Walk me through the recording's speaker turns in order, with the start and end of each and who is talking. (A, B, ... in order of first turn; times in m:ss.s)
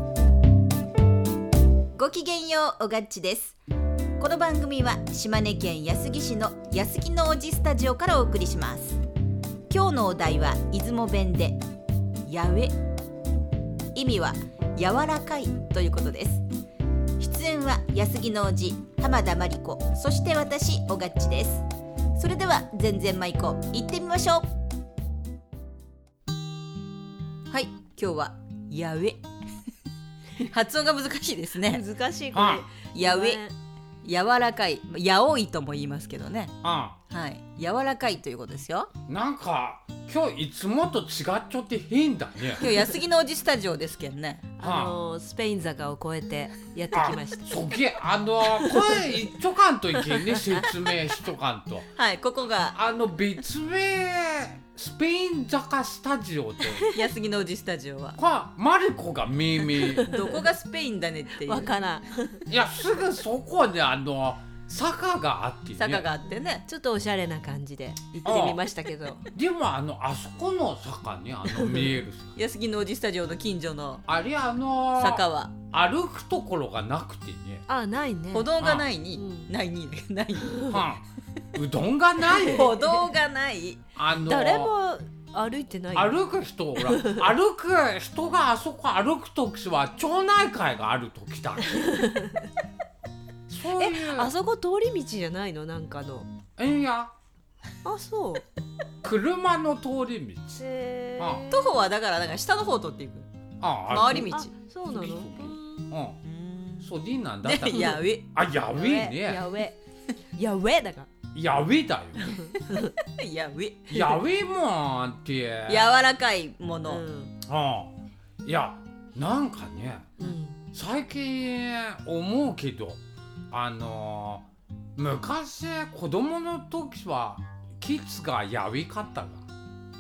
0:02.0-0:03.6 A
0:04.2-0:09.0 A
0:09.7-0:11.6 A
0:12.3-0:12.8 A
0:14.0-0:16.4 A
0:17.2-0:24.5 A
0:27.5-0:29.2 A
0:30.4-0:31.8 A
0:31.7-0:33.6 B
0:32.3-0:32.7 C
0:32.9-0:33.4 A
0:34.0-0:36.5 A
0:36.6-0:37.0 C
0:37.1-0:38.9 A
0:39.1-0:42.7 C
0:42.6-0:44.5 A
0:44.6-0:47.6 B
0:44.6-0:45.0 C
0:46.9-0:51.9 C
0:52.0-0:52.8 A
0:52.7-0:56.8 C
0:56.9-0:58.2 A
0:58.2-1:00.1 C
0:59.8-1:00.4 B
1:00.1-1:01.7 A
1:01.3-1:02.4 B
1:02.5-1:06.1 C
1:05.8-1:06.7 A
1:06.2-1:09.3 B
1:08.2-1:08.6 C
1:09.3-1:12.3 C
1:11.5-1:12.0 B
1:12.4-1:14.0 A
1:14.1-1:17.7 C
1:14.9-1:15.6 A
1:17.7-1:18.6 B
1:18.3-1:20.7 A
1:18.6-1:18.9 C
1:19.2-1:19.5 B
1:20.6-1:20.8 B
1:20.7-1:22.8 C
1:22.3-1:23.8 A
1:24.0-1:24.7 C
1:24.3-1:26.2 B
1:25.9-1:31.8 C
1:26.8-1:27.3 B
1:32.0-1:32.2 B
1:33.5-1:34.3 C
1:33.8-1:36.3 B
1:36.6-1:37.1 C
1:37.8-1:38.4 B
1:39.0-1:40.6 C
1:40.6-1:41.9 B
1:41.2-1:41.4 C
1:41.5-1:43.3 A
1:43.6-1:44.3 C
1:43.9-1:44.5 A
1:43.9-1:46.0 B
1:44.9-1:46.2 C
1:46.2-1:46.9 A
1:46.8-1:49.4 C
1:47.4-1:48.2 A
1:47.7-1:48.0 B
1:48.7-1:49.8 B
1:50.4-1:51.1 B
1:51.3-1:52.4 C
1:52.2-1:52.9 B
1:52.8-1:53.9 A
1:53.9-1:56.0 C
1:55.7-1:57.0 A
1:56.9-1:57.4 B
1:57.4-2:03.0 C
2:00.2-2:00.6 B
2:03.5-2:09.4 C